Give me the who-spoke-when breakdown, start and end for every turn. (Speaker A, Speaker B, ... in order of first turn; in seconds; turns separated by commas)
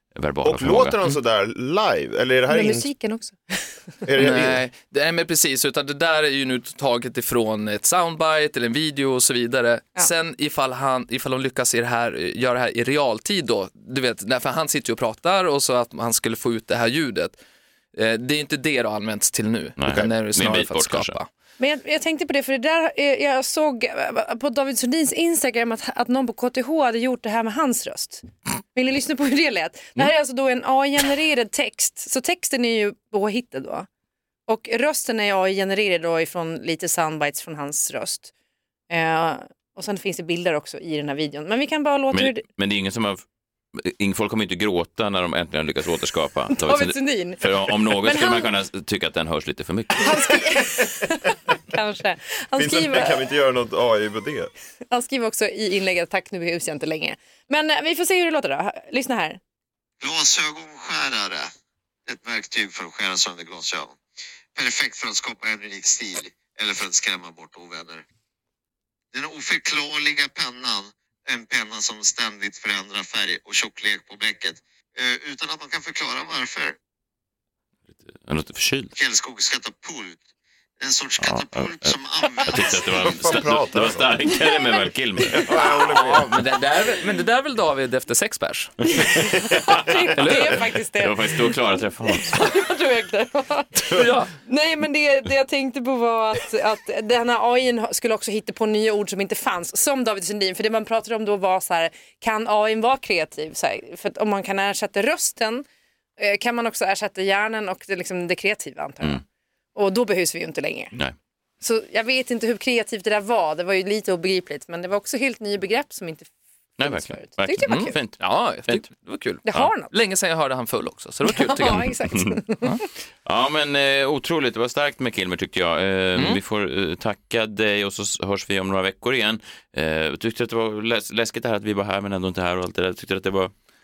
Speaker A: 0.1-1.0, Speaker B: 0.4-2.9, Speaker C: 2.5-3.7, Speaker B: 4.0-4.6, Speaker D: 4.2-17.4, Speaker D: 17.9-21.3, Speaker A: 19.8-21.2, Speaker C: 21.6-33.9, Speaker C: 34.5-38.3, Speaker C: 38.9-42.4, Speaker A: 42.1-43.2, Speaker A: 43.8-50.1, Speaker C: 46.5-48.5, Speaker C: 50.0-53.1, Speaker B: 52.6-54.5, Speaker C: 54.9-59.4, Speaker E: 60.0-61.5, Speaker E: 62.1-64.0, Speaker E: 64.5-68.0, Speaker E: 69.1-76.8, Speaker A: 78.1-78.9, Speaker E: 78.9-80.2, Speaker E: 80.8-82.6, Speaker A: 81.2-85.8, Speaker B: 82.7-84.3, Speaker B: 85.2-86.5, Speaker C: 85.3-85.8, Speaker D: 85.6-88.8, Speaker C: 88.9-105.6, Speaker D: 90.2-90.6, Speaker A: 91.0-92.5, Speaker D: 93.9-94.3, Speaker C: 106.2-109.2, Speaker C: 109.7-110.9, Speaker C: 111.6-116.3, Speaker A: 116.8-118.9, Speaker C: 116.8-118.0, Speaker D: 117.7-122.0, Speaker C: 119.4-119.9, Speaker C: 121.2-122.7, Speaker A: 123.2-133.5